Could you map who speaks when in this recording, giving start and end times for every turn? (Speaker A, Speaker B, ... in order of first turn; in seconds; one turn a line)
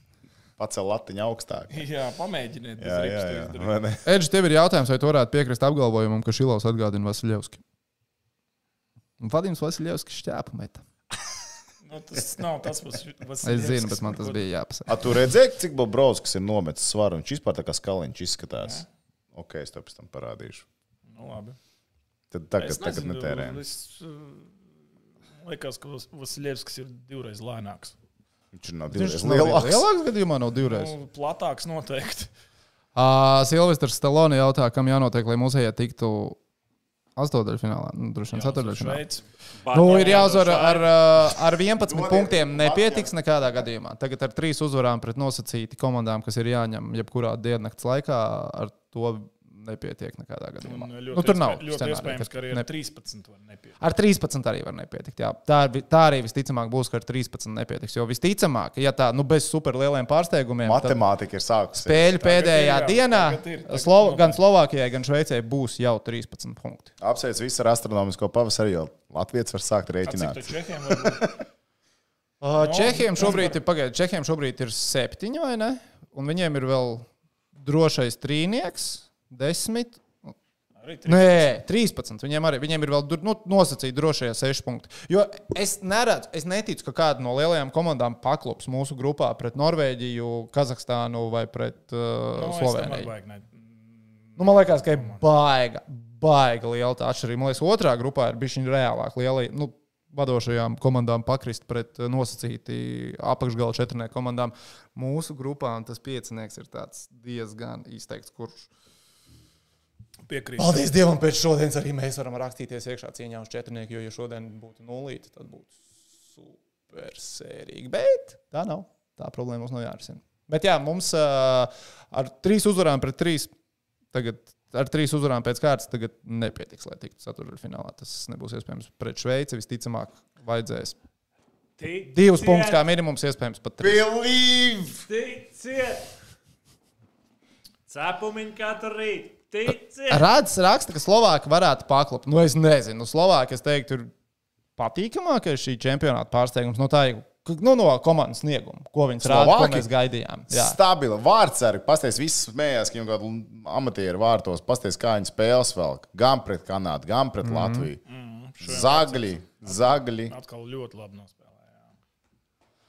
Speaker A: 0.6-1.9
Speaker B: 1.7-3.7
Speaker A: 2.8-4.0
Speaker C: 4.0-7.6
Speaker C: 9.2-10.8
Speaker B: 11.8-14.4
Speaker C: 13.4-15.0
Speaker A: 14.9-20.6
Speaker B: 21.1-21.6
Speaker A: 22.3-23.6
Speaker B: 22.6-24.6
Speaker B: 25.4-28.0
Speaker A: 28.5-29.9
Speaker C: 28.9-30.9
Speaker B: 30.6-32.3
Speaker C: 33.0-36.4
Speaker C: 37.2-39.0
Speaker B: 38.3-39.2
Speaker D: 39.6-40.9
Speaker C: 39.7-52.7
Speaker B: 39.8-40.6
Speaker A: 41.8-43.2
Speaker B: 50.6-53.8
Speaker C: 53.8-61.0
Speaker A: 60.6-62.1
Speaker C: 61.8-66.9
Speaker B: 62.1-64.4
Speaker A: 67.0-71.3
Speaker B: 70.0-71.3
Speaker C: 72.4-80.3
Speaker B: 72.6-73.6
Speaker B: 80.8-81.5
Speaker C: 81.1-93.1
Speaker B: 92.4-95.2
Speaker C: 94.4-108.7
Speaker B: 110.3-110.9
Speaker C: 110.6-123.5
Speaker C: 124.1-131.0
Speaker D: 131.8-132.9
Speaker C: 132.1-134.1
Speaker A: 133.8-135.1
Speaker D: 135.1-136.2
Speaker D: 137.9-140.3
Speaker C: 140.1-144.1
Speaker C: 144.8-150.8
Speaker A: 149.2-149.9
Speaker A: 150.5-158.0
Speaker C: 157.4-157.9
Speaker B: 158.1-161.9
Speaker A: 158.6-160.3